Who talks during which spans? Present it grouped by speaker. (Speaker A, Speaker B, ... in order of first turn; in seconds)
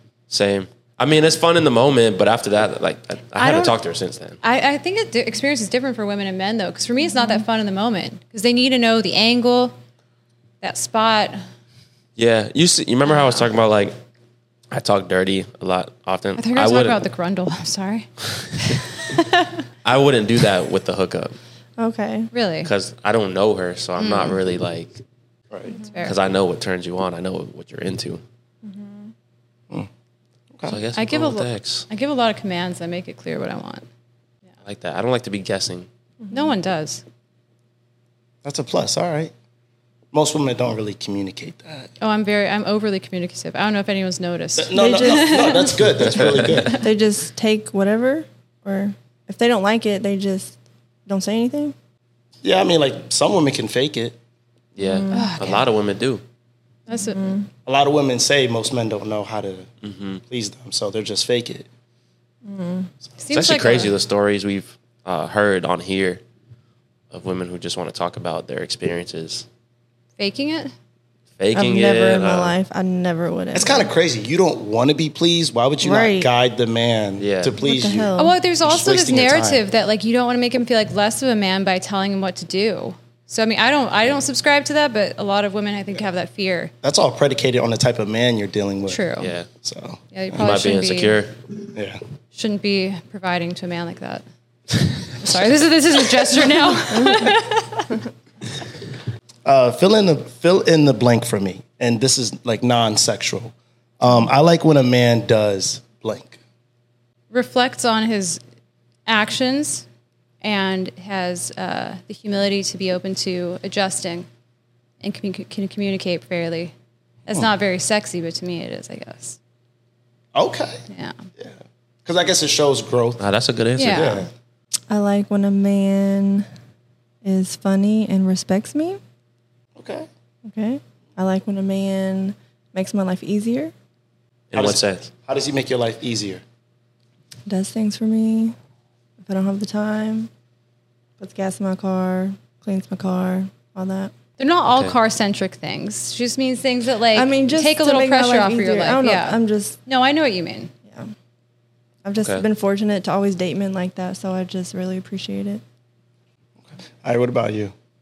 Speaker A: 0.3-4.4, 12.2-13.9, 14.7-17.0, 19.8-21.4, 22.6-25.0, 26.0-28.2, 30.7-31.9, 34.6-35.9, 46.1-46.6, 54.8-56.2, 59.8-60.2, 63.3-66.2, 67.1-69.5, 71.4-72.5, 77.2-77.6, 89.2-89.5, 90.3-91.3, 123.2-124.2, 134.5-135.1, 144.7-144.9, 152.2-152.4
Speaker B: 3.4-3.8, 4.4-9.8, 10.6-11.4, 16.4-19.6, 22.3-22.7, 24.0-24.4, 25.8-26.2, 30.9-33.9, 36.3-37.0, 42.0-46.8, 55.1-55.6, 56.9-57.4, 63.2-63.9, 70.2-70.7, 78.2-86.7, 88.9-89.3, 90.1-91.2, 92.3-94.2, 95.1-98.0, 107.3-108.4, 109.1-109.9, 110.4-114.3, 115.0-116.7, 117.3-119.4, 120.9-121.2, 123.8-124.3, 144.4-150.7
Speaker C: 21.8-22.3, 28.6-29.1, 36.2-36.5, 44.7-45.7, 46.8-50.6, 51.1-51.8, 54.8-55.4, 56.9-57.5, 62.5-62.9, 71.5-73.9, 75.8-76.3, 77.6-78.4, 97.0-97.3, 124.9-126.5, 127.2-129.0, 130.5-133.7, 137.5-138.6, 139.2-140.3, 141.2-144.1, 147.1-149.8, 150.9-151.1, 152.0-155.6
Speaker D: 25.5-25.8, 38.4-39.3, 40.1-41.9, 44.6-46.8, 52.4-54.1, 57.6-59.7, 60.3-61.7, 73.5-79.6, 86.8-89.1, 89.6-90.4, 91.7-92.0, 99.5-106.4, 120.3-120.8, 121.4-123.2, 123.8-124.3, 129.8-130.1, 134.5-136.4, 156.7-157.7